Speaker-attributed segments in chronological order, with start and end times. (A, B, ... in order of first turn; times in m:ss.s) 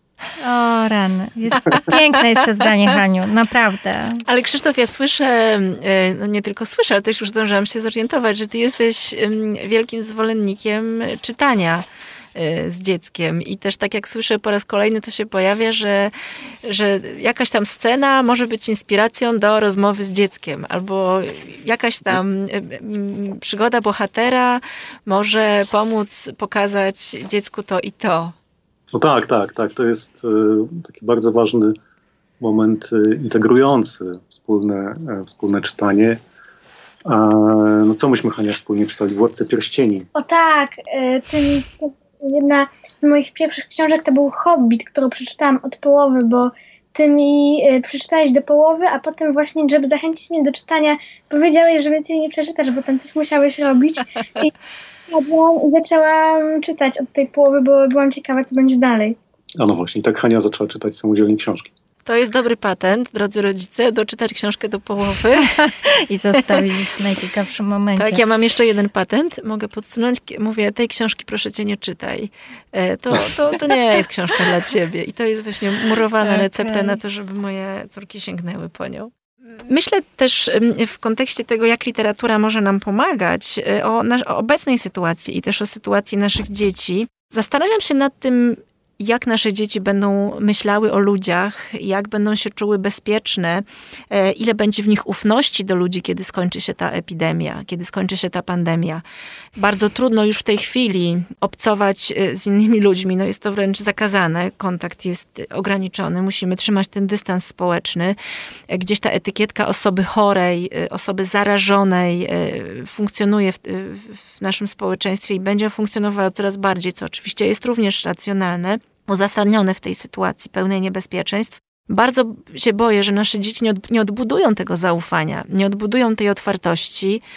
0:00.4-0:04.2 A
0:04.3-0:16.1 B
0:16.6-0:28.4 B
0:28.9-0:31.8 C
0:32.4-0:36.2 C
0:37.1-0:40.1 C
0:40.2-0:54.5 D
0:55.1-0:59.2 D
0:59.6-1:01.7 C
1:02.0-1:05.7 B
1:05.6-1:08.2 A
1:08.0-1:39.0 B
1:16.2-1:17.0 A
1:39.6-1:48.2 B
1:48.7-2:07.2 B